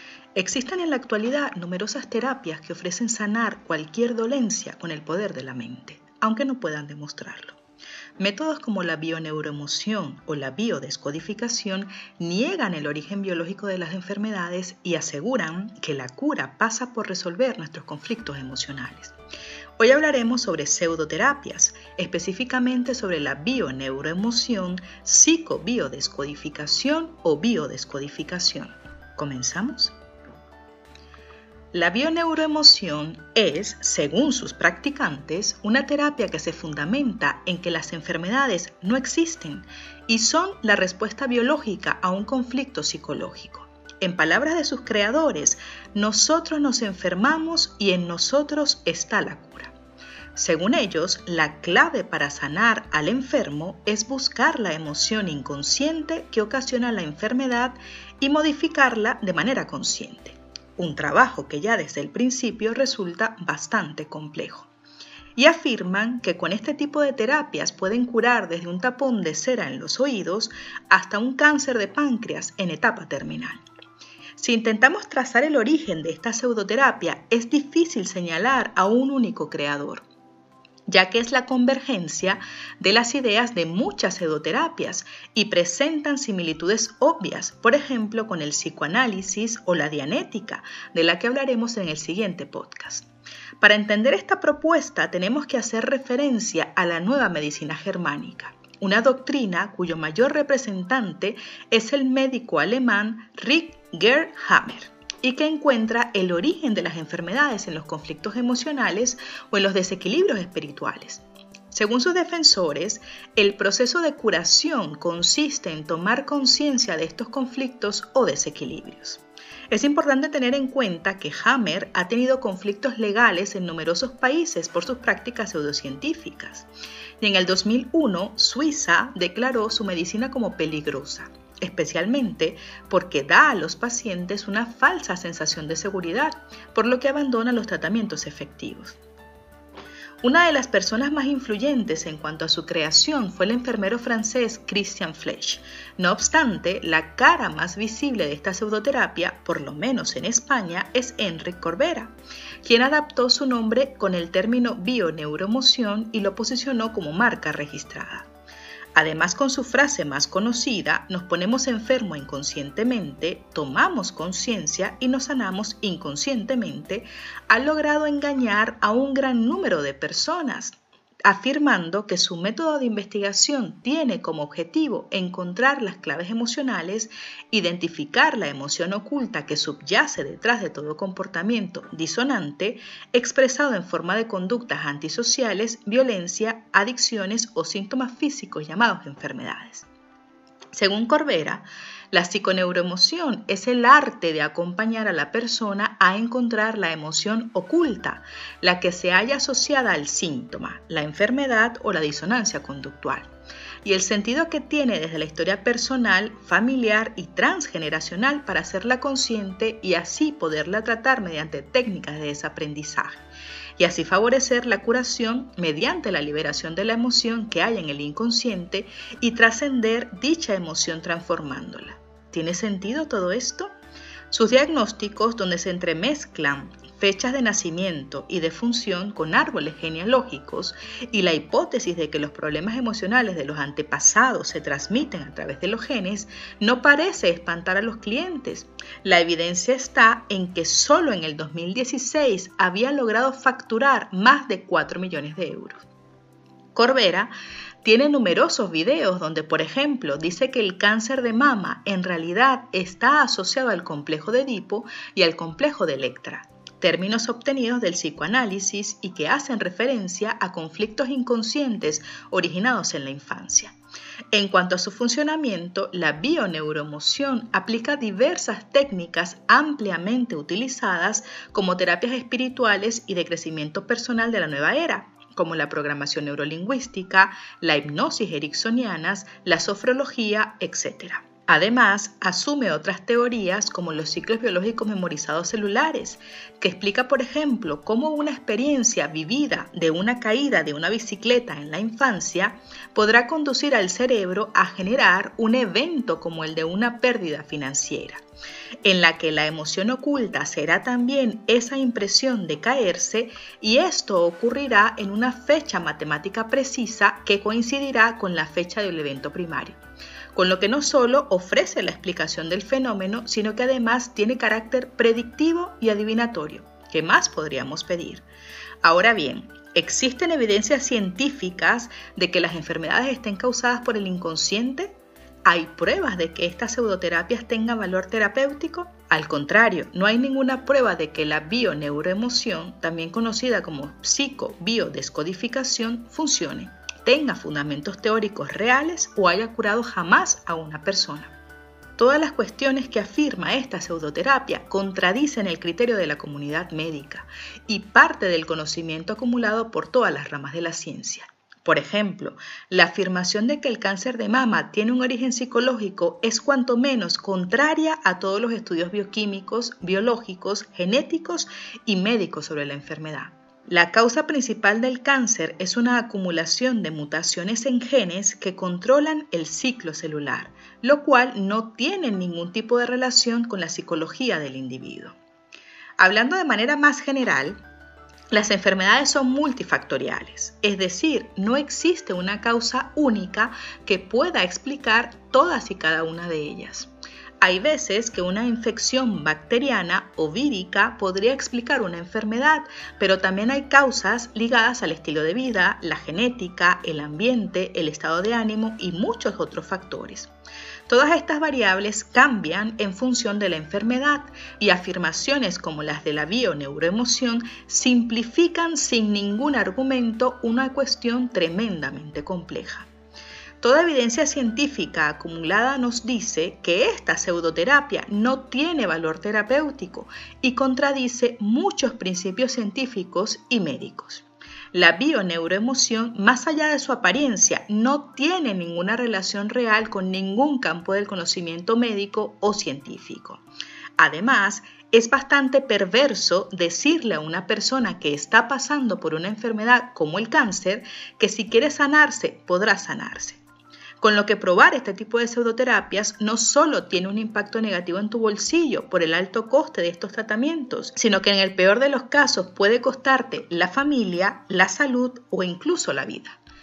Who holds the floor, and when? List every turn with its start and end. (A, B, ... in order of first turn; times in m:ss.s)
0:00.4-0:07.6 A
0:08.2-0:19.2 A
0:19.8-0:30.0 A
0:31.7-0:49.8 A
0:50.4-1:04.7 A
1:05.4-1:13.6 A
1:14.4-1:20.0 A
1:20.9-1:33.1 A
1:33.6-2:06.7 A
2:07.2-2:19.0 A
2:20.2-2:38.3 A
2:39.0-3:09.9 A
3:10.7-3:23.3 A
3:23.8-3:33.2 A
3:33.8-3:43.7 A
3:44.3-4:05.9 A
4:06.8-4:07.3 A
4:07.8-4:23.8 A
4:24.3-4:58.2 A
4:58.8-5:09.8 A
5:10.4-5:18.2 A
5:18.8-5:41.3 A
5:42.0-6:15.2 A
6:16.0-6:17.6 A
6:18.3-6:26.9 A
6:27.4-6:40.3 A
6:40.9-6:52.9 A
6:53.6-7:13.4 A
7:14.0-7:23.4 A
7:24.0-7:36.4 A